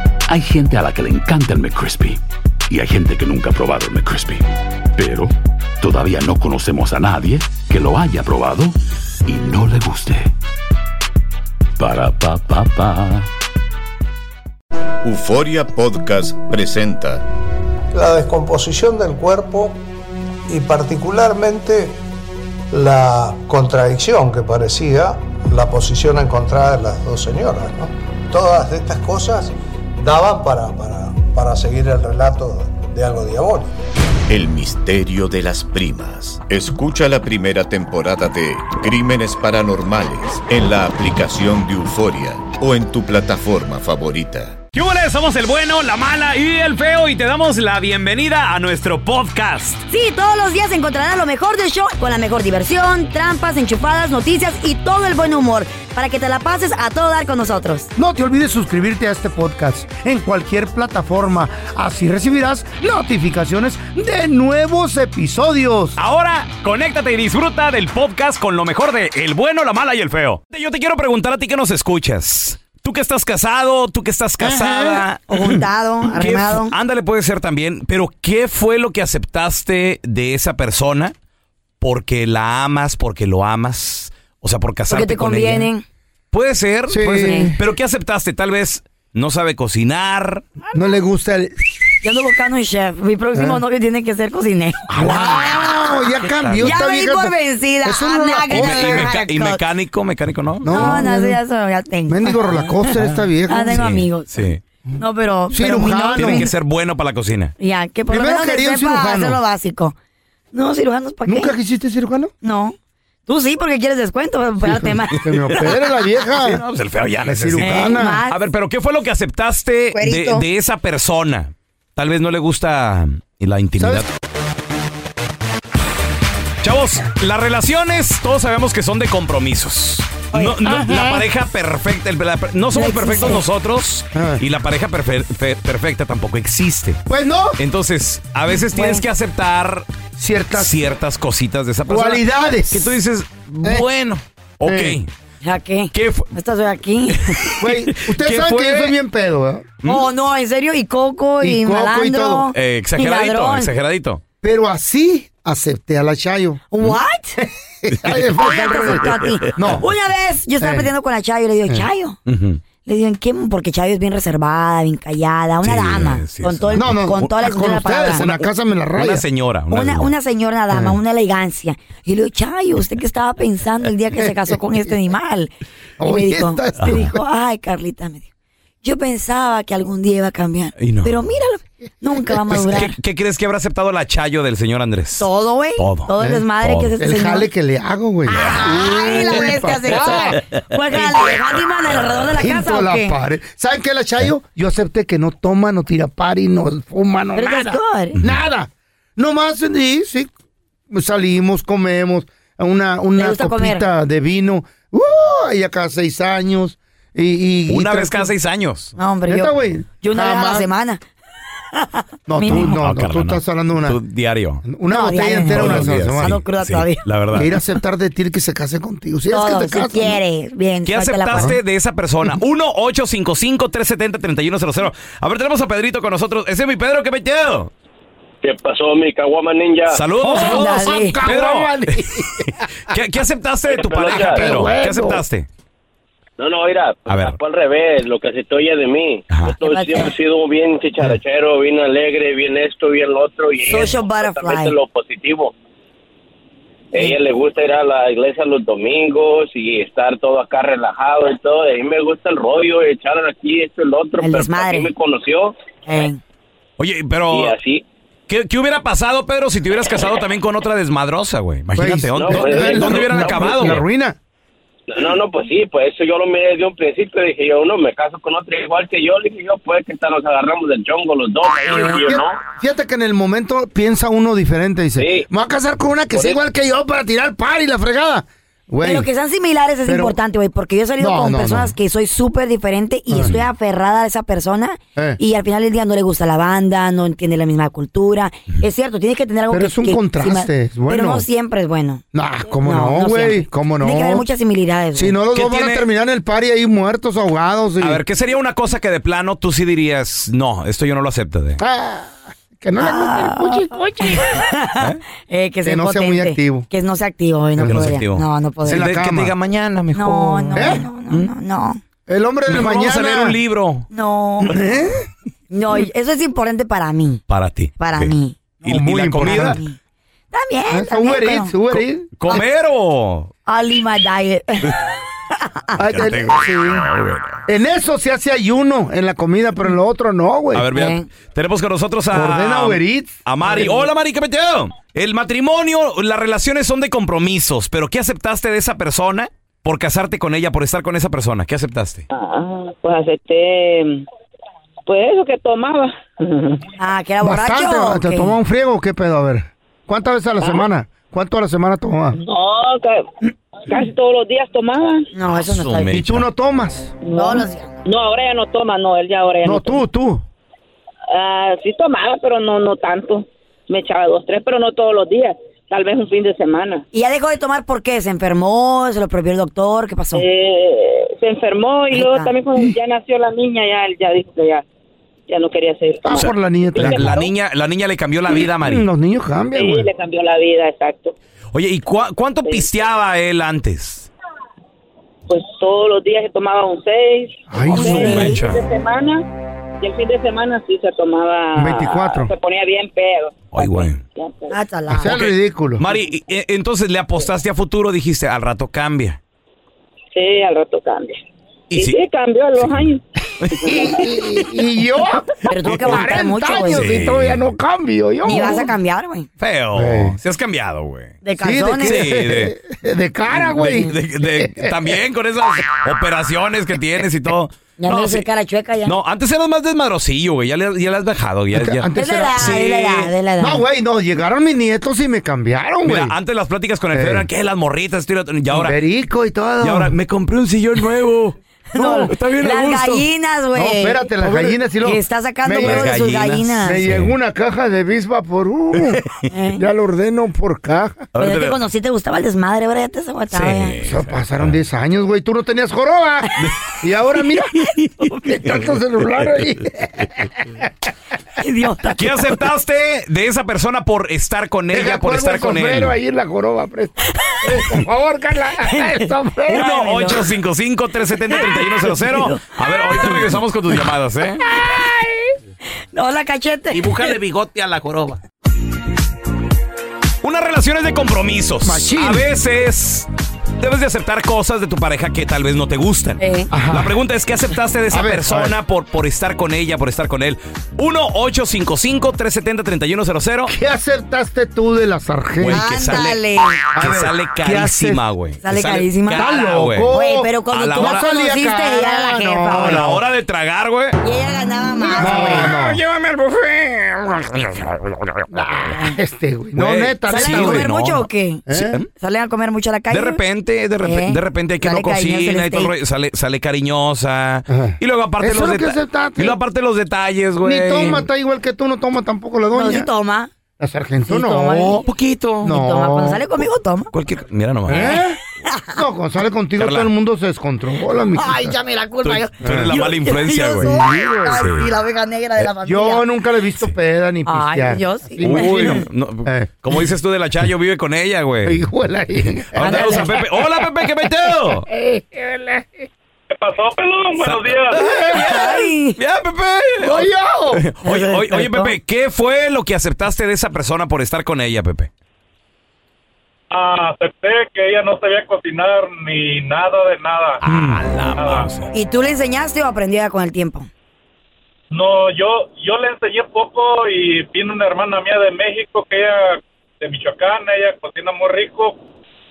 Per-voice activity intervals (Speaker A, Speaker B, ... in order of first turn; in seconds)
Speaker A: 0.3-10.3, 11.8-13.3
Speaker B: 15.0-17.2, 34.3-44.6
Speaker C: 17.9-19.8, 20.5-22.0, 22.7-33.7
Speaker D: 44.7-49.8, 66.0-75.6, 76.1-81.1, 81.8-85.7, 86.3-90.5, 95.0-95.6, 96.3-96.8, 98.5-101.0, 103.0-104.6, 106.2-107.5, 115.2-115.7, 116.3-124.1, 126.6-137.0, 137.6-139.9, 140.5-145.1, 145.9-146.3, 147.3-148.9, 152.5-154.2, 159.1-159.7, 162.3-162.6, 165.6-167.3, 169.0-170.1, 180.8-181.2, 182.5-186.1, 186.6-186.9, 188.4-188.7, 191.9-192.2, 207.7-209.0, 212.5-214.6, 215.5-217.6, 220.8-227.7, 229.9-235.5, 237.1-237.4, 239.3-239.6, 256.8-257.5, 258.3-263.8, 295.3-295.9, 297.8-301.6, 307.6-311.3, 312.5-313.9, 317.3-319.6, 322.2-323.3, 325.9-327.4, 330.5-342.1, 355.3-356.2, 376.1-378.9, 381.5-384.1, 387.7-388.6, 393.5-394.0, 395.0-399.2, 401.7-402.0, 403.4-403.7, 405.7-407.5, 408.3-408.6, 409.4-411.2, 411.8-412.5, 413.3-418.2, 418.9-423.1, 425.9-428.8, 429.6-433.1, 435.6-437.1, 441.1-441.6, 443.3-444.5, 447.8-449.5, 451.9-455.9, 459.5-464.5, 466.7-468.2, 470.2-473.1, 473.6-483.5, 485.4-486.2, 486.8-489.9, 490.5-491.1, 492.5-494.0, 494.8-498.1, 499.6-501.9, 502.9-511.1, 514.9-515.5, 516.9-518.0, 519.6-519.9, 522.0-523.7, 524.3-524.7, 528.2-531.6, 532.5-534.7, 537.2-544.9, 550.4-551.7
Speaker E: 49.9-57.9, 75.3-76.8, 84.9-85.8, 87.0-87.5, 92.0-95.8, 96.6-99.6, 100.7-102.7, 103.5-104.4, 105.0-106.5, 107.6-110.0, 110.5-111.5, 112.4-112.8, 113.3-115.7, 117.6-118.4, 119.9-120.5, 130.3-130.6, 132.7-133.4, 138.7-139.0, 145.4-147.4, 149.8-153.7, 156.7-157.4, 158.3-162.2, 162.8-168.5, 169.7-178.2, 178.8-182.9, 185.2-187.5, 188.3-193.2, 197.3-198.2, 203.2-203.8, 209.0-211.0, 211.8-212.8, 214.9-217.0, 219.3-221.5, 230.3-231.2, 239.6-240.1, 243.7-244.8, 254.2-254.9, 255.9-256.2, 278.8-292.0, 292.6-295.2, 302.8-308.9, 309.9-311.8, 313.9-314.7, 315.5-317.2, 317.8-318.4, 319.2-319.8, 320.3-321.5, 323.5-324.8, 330.7-331.1, 346.8-348.3, 355.1-355.9, 357.2-357.8, 366.9-370.2, 371.9-372.3, 387.9-388.4, 394.5-395.2, 405.5-407.1, 408.2-409.3, 411.2-412.1, 417.8-418.9, 422.0-423.6, 431.7-436.8, 439.3-439.6, 441.2-443.8, 451.4-452.4, 458.6-460.3, 461.3-463.1, 464.5-464.8, 465.9-467.2, 476.2-476.5, 485.5-486.7, 488.4-489.3, 489.9-492.9, 494.0-495.6, 500.1-503.2, 503.8-505.7, 512.5-513.3, 514.1-514.9, 515.5-516.9, 517.7-518.7, 521.1-526.0, 527.3-528.9, 532.6-533.2, 538.1-539.0, 540.9-541.8, 551.7-553.7
Speaker F: 58.0-66.0, 74.4-75.0, 86.9-87.6, 90.7-91.8, 93.3-93.6, 94.9-99.1, 100.6-101.4, 102.1-103.8, 105.5-106.5, 108.1-109.4, 111.3-112.3, 114.6-116.6, 117.2-118.2, 123.8-124.0, 130.6-131.2, 134.1-134.4, 137.1-137.6, 140.2-140.8, 141.9-142.9, 144.7-145.0, 147.6-149.7, 151.4-152.5, 154.4-156.6, 157.4-159.8, 160.6-160.9, 166.8-169.2, 176.0-177.2, 186.2-186.5, 187.0-190.4, 190.9-191.2, 192.4-200.3, 200.9-208.3, 209.3-210.7, 212.3-214.0, 214.7-216.3, 217.3-220.2, 230.2-232.6, 234.1-235.2, 261.8-264.2, 271.8-279.1, 279.9-280.2, 281.0-281.7, 283.1-283.4, 289.5-291.2, 292.1-294.2, 294.9-298.0, 301.6-304.4, 305.6-306.7, 307.6-307.9, 308.7-309.3, 310.5-310.8, 312.1-313.4, 314.5-315.1, 318.6-319.6, 320.7-322.4, 325.8-326.9, 327.5-330.6, 332.1-333.7, 347.2-352.2, 355.9-357.0, 359.4-360.2, 376.0-377.3, 378.4-379.9, 387.5-388.4, 391.6-392.3, 394.9-395.8, 403.6-408.7, 409.8-410.2, 411.4-414.7, 421.5-422.7, 423.4-426.1, 426.9-427.3, 428.5-429.9, 433.6-435.9, 436.6-439.0, 439.6-441.1, 443.9-447.6, 448.2-450.7, 454.7-459.6, 464.8-465.2, 471.6-472.3, 476.5-476.9, 477.9-478.6, 483.5-485.7, 486.7-488.0, 489.1-493.0, 495.0-495.8, 498.3-500.7, 501.5-501.8, 507.5-509.4, 510.4-512.9, 513.6-514.9, 515.4-516.2, 517.7-518.2, 518.7-521.5, 522.4-522.8, 523.6-524.4, 525.4-529.5, 531.5-533.4, 534.7-535.7, 537.9-538.4, 539.8-540.6
Speaker G: 228.4-230.0, 233.7-234.6, 236.4-245.5, 246.9-255.6, 257.3-257.8, 262.2-263.8, 264.9-272.4, 275.0-275.3, 276.1-276.4
Speaker H: 342.1-344.1, 344.9-346.7, 352.1-355.1, 357.0-359.8, 361.1-366.9, 370.1-374.6, 375.3-377.3, 379.6-381.1, 385.3-389.3, 389.8-394.6, 400.1-401.2, 401.7-403.0
Speaker I: 536.3-537.9, 546.5-550.4, 551.1-551.5, 554.7-561.8